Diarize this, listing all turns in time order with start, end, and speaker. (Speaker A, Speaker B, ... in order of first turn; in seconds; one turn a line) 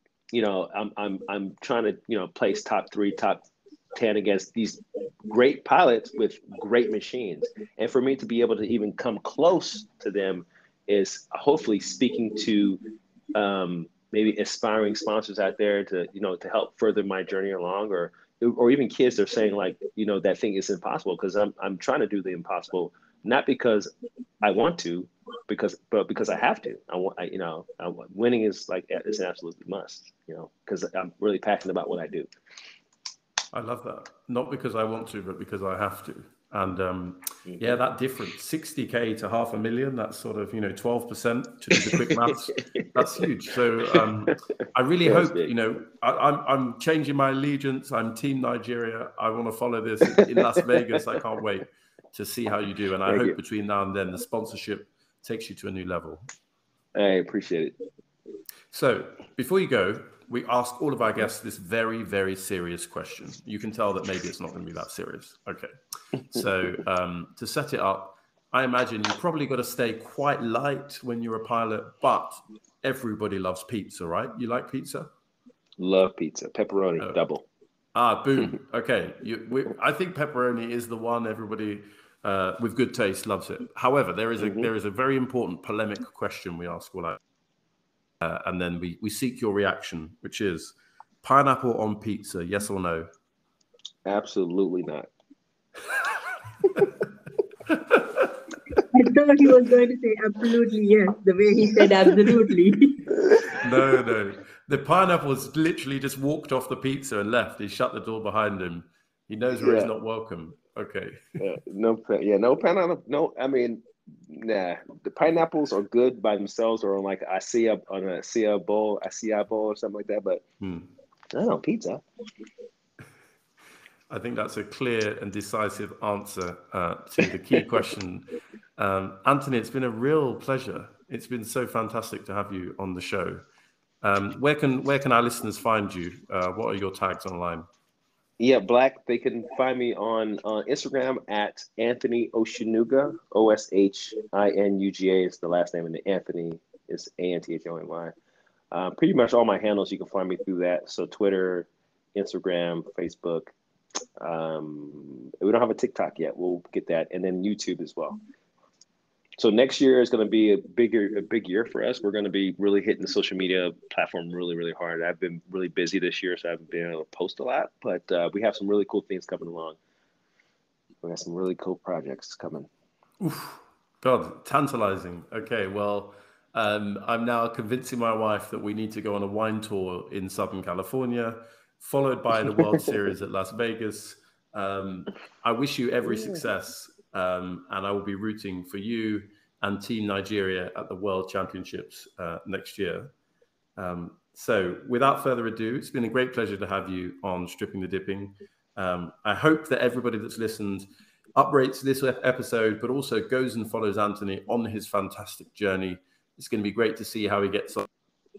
Speaker A: 0.3-12.8
Speaker A: 13.3-23.9
Speaker A: 24.4-32.3
Speaker B: 33.5-56.3
Speaker A: 37.5-37.7
Speaker A: 41.9-42.9
Speaker A: 45.0-45.5
Speaker A: 53.0-53.4
Speaker A: 56.9-57.8
Speaker B: 58.7-75.1
Speaker A: 75.8-77.4
Speaker B: 77.9-87.2
Speaker A: 84.4-84.7
Speaker B: 88.2-93.1
Speaker A: 94.0-95.1
Speaker B: 97.7-98.3
Speaker C: 98.9-103.0
Speaker A: 103.2-103.5
Speaker B: 103.5-111.4
Speaker A: 109.6-109.9
Speaker A: 111.4-120.4
Speaker B: 120.6-120.9
Speaker A: 121.3-122.0
Speaker B: 124.1-133.4
Speaker B: 134.0-137.7
Speaker A: 138.4-148.1
Speaker A: 148.7-153.5
Speaker A: 154.2-158.2
Speaker A: 159.4-169.8
Speaker A: 171.0-172.7
Speaker B: 173.2-193.1
Speaker B: 193.8-207.9